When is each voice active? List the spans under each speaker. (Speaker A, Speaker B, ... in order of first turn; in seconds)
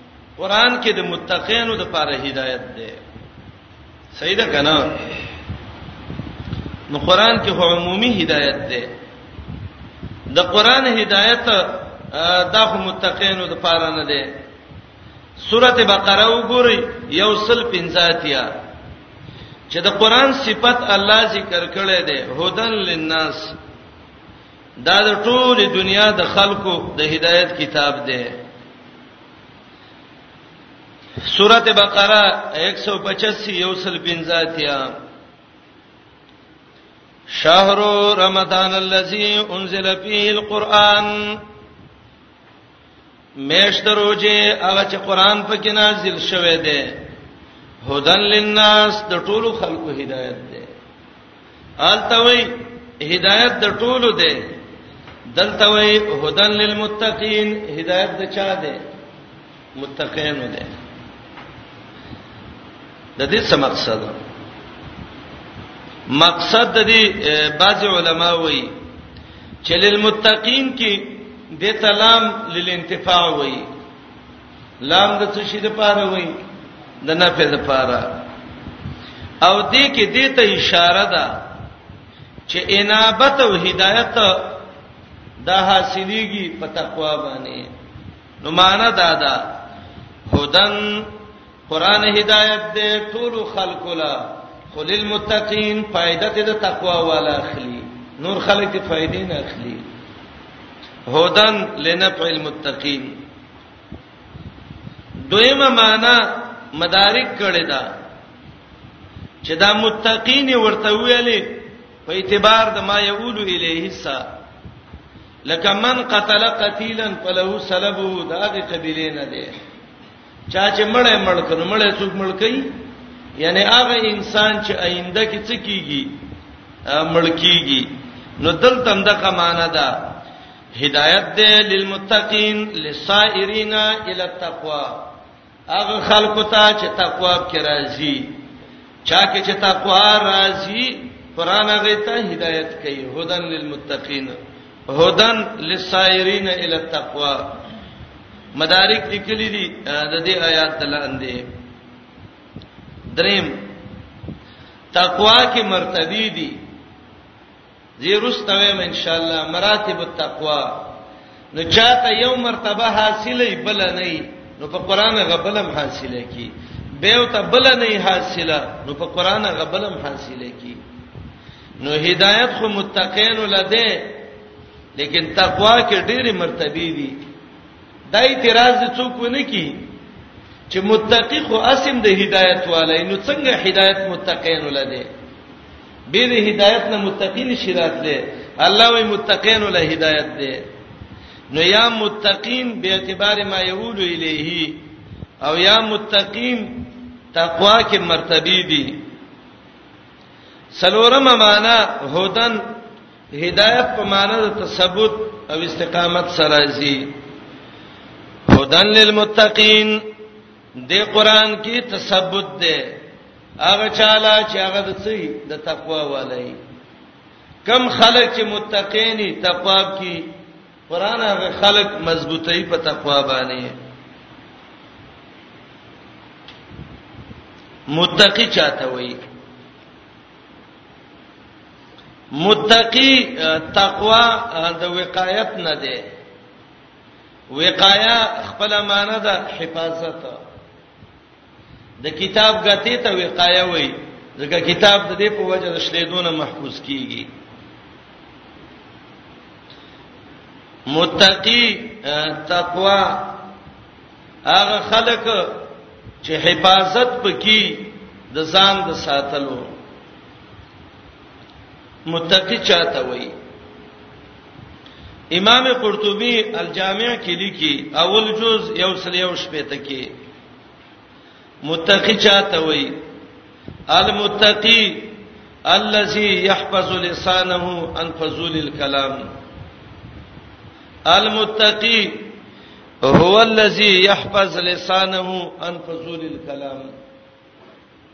Speaker A: 0.4-3.0, 4.1-5.0, 6.9-8.9, 10.3-14.3, 15.4-18.5, 19.7-23.6, 24.8-28.4, 31.3-34.9, 37.3-41.4, 43.5-47.0, 47.9-50.7, 51.8-54.5, 55.3-58.8, 59.8-60.7, 63.2-64.1, 66.1-68.7, 69.6-73.7, 74.8-76.3, 77.0-78.1, 79.4-81.4, 82.5-84.6, 85.4-87.7, 88.4-89.5, 90.3-91.1, 91.7-99.8, 101.1-103.1, 105.3-107.9, 109.4-111.5, 112.1-114.2, 115.5-119.5, 120.5-122.7, 123.4-126.1, 126.9-127.9, 128.4-129.9, 130.8-135.1, 135.7-138.3, 139.1-144.3, 144.9-147.5, 148.6-151.5, 153.1-153.6, 154.9-156.6, 158.0-160.9, 161.5-170.8, 171.8-174.2, 175.0-177.2, 178.1-179.8, 180.7-185.1, 186.1-190.6, 191.5-194.8, 195.4-199.0, 200.8-202.6, 203.4-207.1, 208.5-210.0, 210.9-212.9, 213.6-216.6, 217.6-220.3, 220.9-223.7, 227.9-229.2, 232.4-236.0, 237.5-240.4, 242.0-247.3, 250.9-253.4, 254.5-255.6, 256.2-259.7, 262.1-263.3, 265.3-270.1, 271.6-272.9, 273.9-275.1, 275.7-279.2, 281.1-282.3, 283.0-286.9